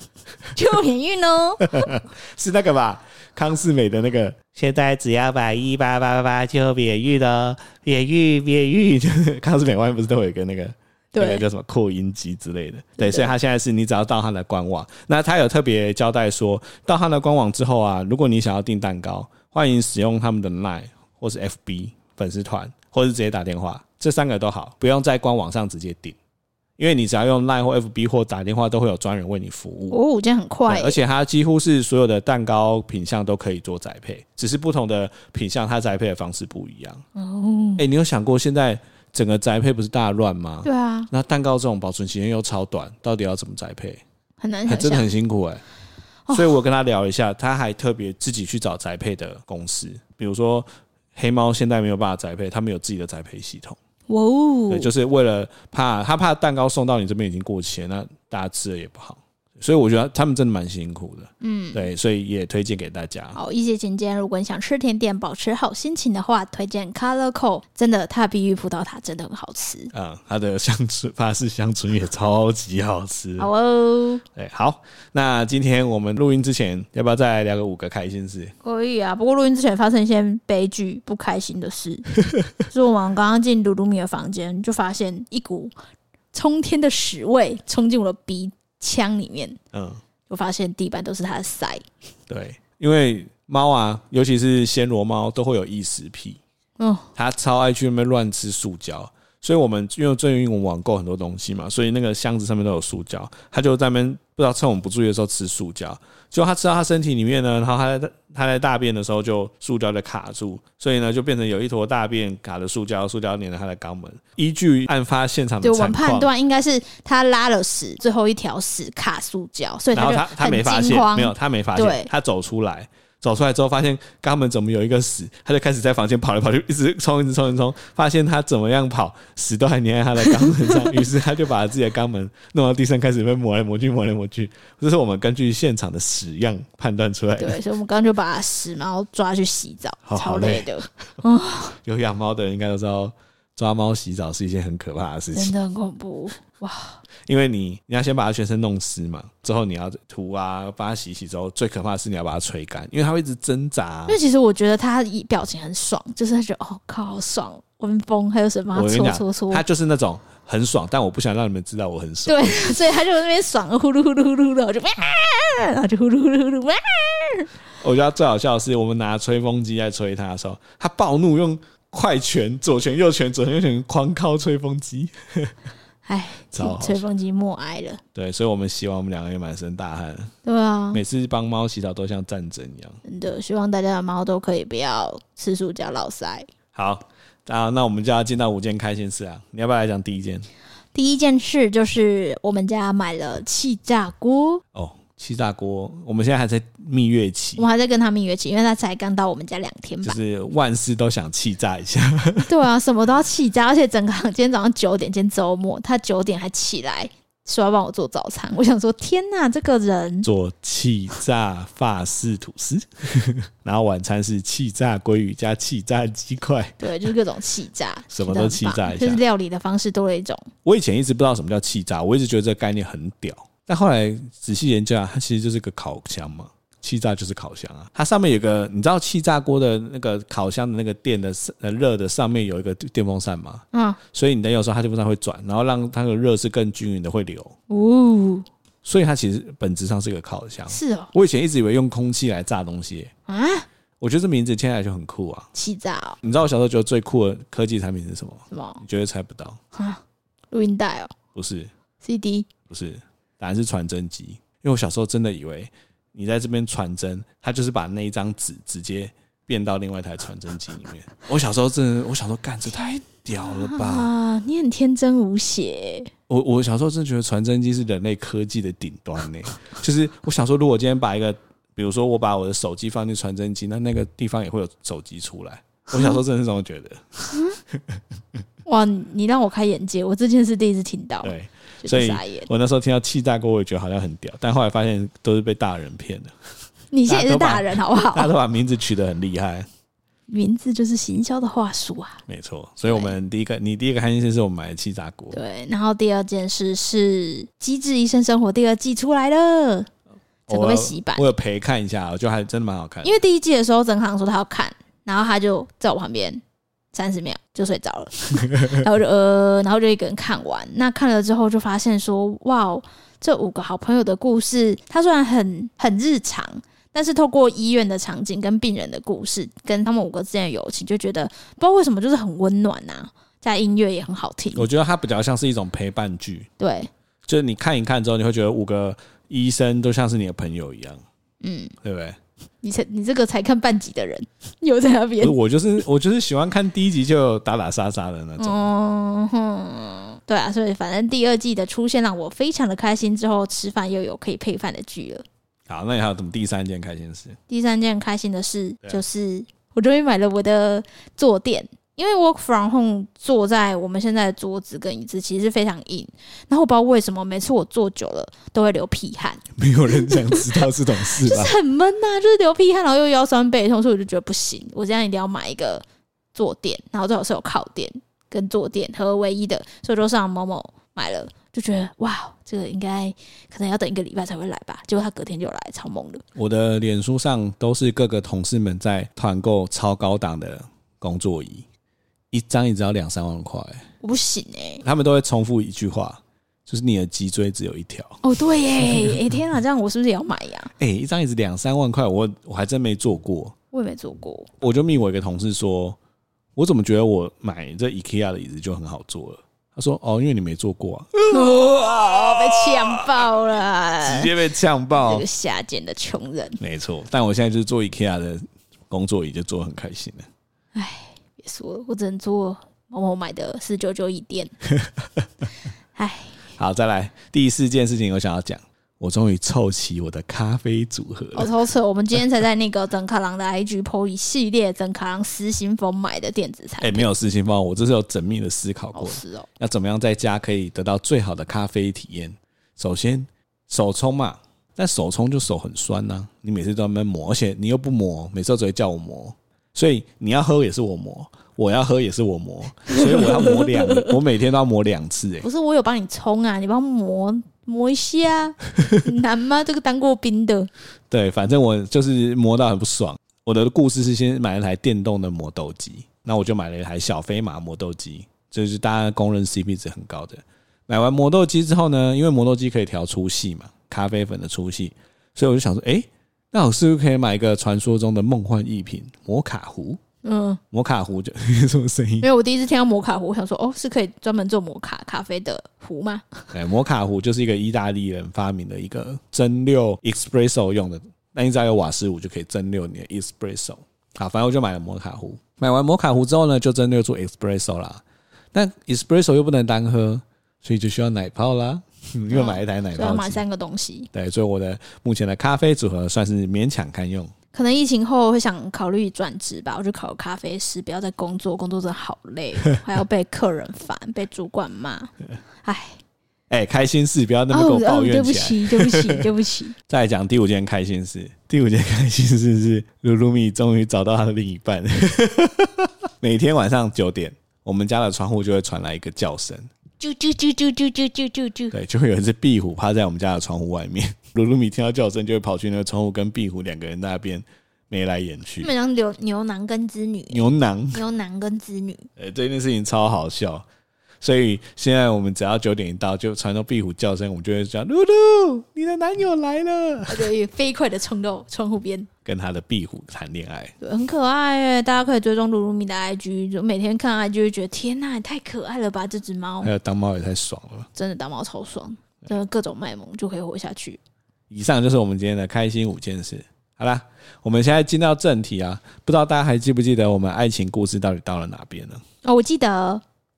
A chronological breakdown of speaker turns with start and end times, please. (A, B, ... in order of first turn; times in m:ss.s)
0:00.5-0:01.9 A
0:01.6-0:26.2 B
0:11.1-0:11.4 A
0:13.0-0:13.3 A
0:26.8-0:30.0 B
0:29.9-0:31.0 A
0:30.7-0:37.0 B
0:37.2-0:37.8 A
0:37.8-0:44.0 B
0:40.6-0:41.1 A
0:44.4-0:45.1 A
0:44.7-0:45.6 B
0:46.3-0:46.5 A
0:46.3-0:53.8 B
0:54.1-0:54.9 A
0:54.7-1:03.4 B
1:01.4-1:01.9 A
1:03.4-1:09.9 A
1:09.9-1:13.5 B
1:13.4-1:14.2 A
1:14.4-1:18.5 B
1:18.6-1:25.7 A
1:26.3-1:29.6 A
1:29.7-1:30.0 B
1:30.3-1:31.8 A
1:32.3-1:36.4 B
1:36.8-1:37.1 A
1:37.2-1:56.3 B
1:55.6-2:02.1 A
1:59.9-2:17.6 B
2:10.4-2:11.0 A
2:17.4-2:21.8 A
2:20.1-2:20.8 B
2:21.8-2:25.5 B
2:25.3-2:27.0 A
2:27.3-2:34.2 B
2:34.1-2:39.6 A
2:38.8-2:42.8 B
2:42.3-2:47.5 A
2:47.8-2:55.5 B
2:56.0-2:58.0 A
2:56.5-2:57.0 B
2:58.2-3:00.3 B
3:00.4-3:01.0 A
3:00.9-3:03.0 B
3:03.0-3:06.5 A
3:06.7-3:10.5 B
3:10.9-3:14.6 A
3:14.7-3:17.6 B
3:17.6-3:20.2 A
3:20.0-3:22.5 B
3:22.4-3:30.3 A
3:30.2-3:36.9 B
3:36.8-3:40.5 A
3:38.1-3:39.2 B
3:40.6-3:57.6 B
3:53.7-3:54.0 A
3:57.7-3:58.5 A
3:58.8-4:03.1 B
4:00.7-4:01.1 A
4:03.3-4:03.7 A
4:04.0-4:05.5 B
4:05.5-4:06.2 A
4:06.2-4:09.6 B
4:08.5-4:08.8 A
4:09.7-4:10.0 A
4:10.5-4:11.1 A
4:11.4-4:11.7 B
4:12.0-4:12.5 A
4:12.7-4:24.1 B
4:22.7-4:26.1 A
4:26.3-4:38.0 B
4:37.3-4:37.6 A
4:38.7-4:42.5 A
4:41.2-4:46.3 B
4:46.9-4:48.3 A
4:47.1-4:49.7 B
4:50.3-4:52.2 A
4:52.3-4:55.4 B
4:52.9-4:53.2 A
4:55.3-4:59.9 A
5:00.5-5:01.2 A
5:00.5-5:03.2 B
5:03.0-5:06.4 A
5:06.9-5:24.7 A
5:24.6-5:26.5 B
5:26.6-5:26.9 A
5:27.3-5:31.0 B
5:31.4-5:31.7 A
5:31.8-5:32.2 B
5:32.6-5:35.4 A
5:35.2-5:38.7 B
5:38.4-5:45.2 A
5:45.7-5:47.4 B
5:47.5-6:16.2 A
5:59.6-6:01.6 B
6:16.4-6:21.7 B
6:22.3-6:23.8 B
6:24.0-6:24.8 A
6:24.8-6:28.2 B
6:28.2-6:30.7 A
6:28.8-6:29.2 B
6:30.8-6:33.6 B
6:33.7-6:34.5 A
6:34.6-6:36.0 B
6:36.6-6:43.3 B
6:41.3-6:44.3 A
6:44.0-6:45.2 B
6:44.9-6:46.6 A
6:46.6-6:50.3 B
6:50.8-6:54.5 A
6:56.0-6:56.4 A
6:56.6-7:01.5 B
7:01.4-7:07.1 A
7:06.8-7:25.5 B
7:08.9-7:09.5 A
7:22.9-7:24.1 A
7:25.4-7:30.7 A
7:31.1-7:50.0 B
7:50.2-7:50.6 A
7:50.7-7:52.3 B
7:52.2-7:56.5 A
7:56.5-8:08.0 B
8:08.5-8:13.4 B
8:12.3-8:14.1 A
8:14.1-8:17.3 B
8:17.5-8:25.1 A
8:25.6-8:26.0 A
8:26.5-8:29.3 B
8:27.5-8:29.8 A
8:29.9-8:39.7 B
8:40.0-8:41.8 A
8:41.7-8:48.7 B
8:48.6-8:52.1 A
8:50.3-8:51.0 B
8:52.2-8:53.6 B
8:54.2-9:00.3 B
9:00.1-9:02.1 A
9:02.2-9:03.7 B
9:03.8-9:09.7 A
9:09.6-9:10.9 B
9:11.0-9:14.0 A
9:14.5-9:22.0 B
9:22.2-9:23.0 A